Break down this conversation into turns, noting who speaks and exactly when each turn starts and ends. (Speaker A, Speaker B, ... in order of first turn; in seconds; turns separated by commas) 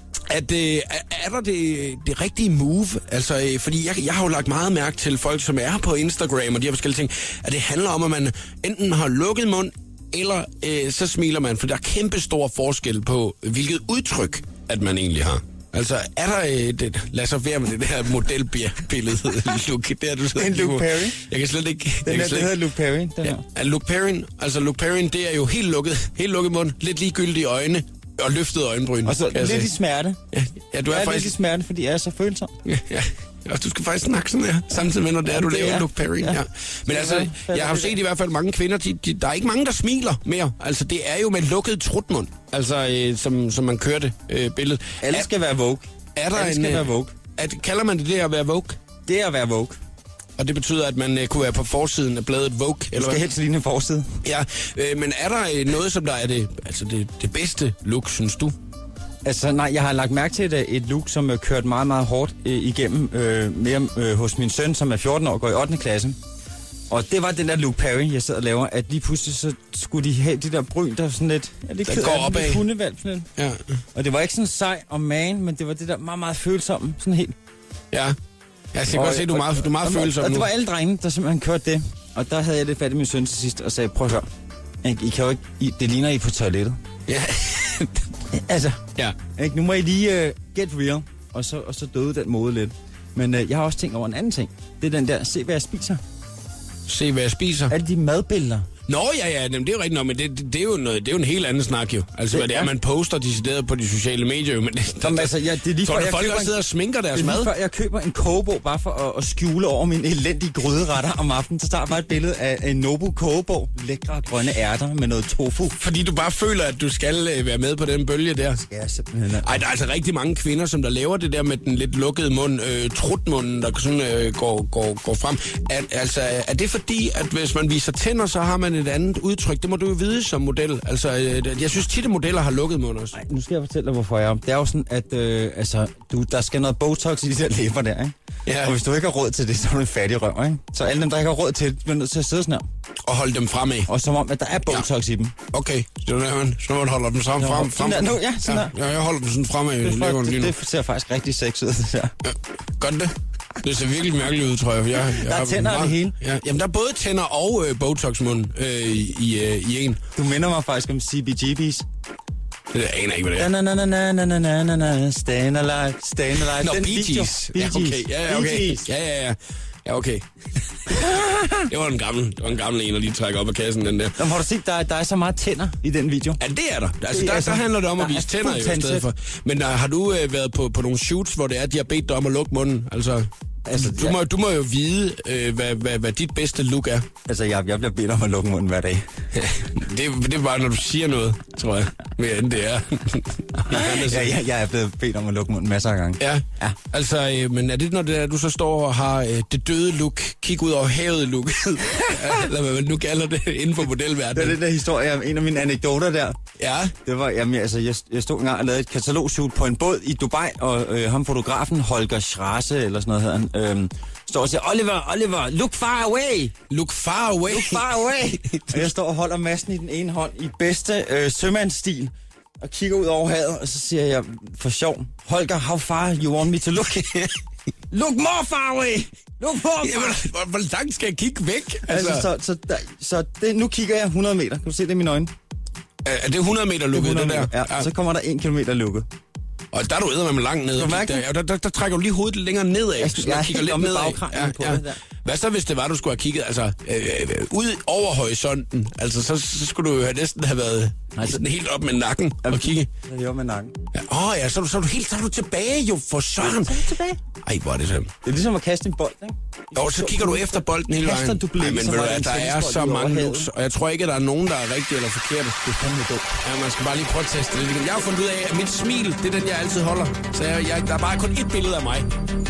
Speaker A: 0.3-22.5, Speaker B: 20.4-21.2, Speaker B: 22.1-23.4, Speaker A: 23.2-29.7, Speaker B: 29.1-30.2, Speaker A: 30.3-31.4, Speaker B: 30.9-32.5, Speaker A: 32.7-45.3, Speaker B: 35.2-38.0, Speaker B: 45.0-47.1, Speaker A: 46.2-48.8, Speaker B: 49.0-49.8, Speaker A: 50.4-53.2, Speaker B: 52.9-54.1, Speaker A: 54.2-58.5, Speaker B: 59.2-66.2, Speaker B: 66.9-73.3, Speaker A: 71.8-72.6, Speaker B: 73.9-77.3, Speaker A: 78.7-80.5, Speaker B: 78.9-84.3, Speaker B: 84.8-86.8, Speaker A: 87.1-88.1, Speaker B: 88.3-88.8, Speaker B: 89.4-96.0, Speaker A: 96.9-97.7, Speaker B: 97.7-98.7, Speaker A: 98.9-107.5, Speaker B: 102.3-102.7, Speaker B: 105.0-106.6, Speaker B: 107.1-115.8, Speaker A: 115.8-118.6, Speaker B: 118.6-119.6, Speaker A: 119.4-133.2, Speaker B: 133.1-142.6, Speaker A: 138.5-138.8, Speaker A: 143.1-143.9, Speaker B: 143.9-145.3, Speaker A: 145.5-150.5, Speaker B: 147.4-148.7, Speaker B: 149.8-152.1, Speaker A: 152.2-160.0, Speaker B: 155.1-156.2, Speaker B: 160.2-161.9, Speaker A: 162.7-163.5, Speaker B: 163.4-168.9, Speaker A: 166.6-174.2, Speaker B: 171.0-171.7, Speaker B: 174.2-176.4, Speaker A: 176.4-187.1, Speaker B: 177.1-179.1, Speaker B: 183.7-184.2, Speaker B: 187.3-189.1, Speaker A: 189.3-194.4, Speaker B: 193.7-196.8, Speaker A: 196.2-204.6, Speaker B: 204.3-206.4, Speaker A: 206.6-206.9, Speaker B: 207.1-216.5, Speaker A: 216.7-217.8, Speaker B: 217.5-227.1, Speaker A: 218.5-218.9, Speaker A: 227.0-227.3, Speaker B: 227.9-230.2, Speaker A: 229.8-232.3, Speaker B: 231.9-235.3, Speaker A: 236.1-237.9, Speaker B: 236.9-239.1, Speaker A: 239.7-252.9, Speaker B: 240.7-241.2, Speaker B: 243.0-245.0, Speaker B: 251.2-251.4, Speaker B: 252.4-253.7, Speaker A: 253.9-256.9, Speaker B: 256.4-257.2, Speaker A: 257.4-258.1, Speaker B: 258.2-263.5, Speaker A: 259.8-265.6, Speaker B: 265.6-266.3, Speaker A: 266.4-272.1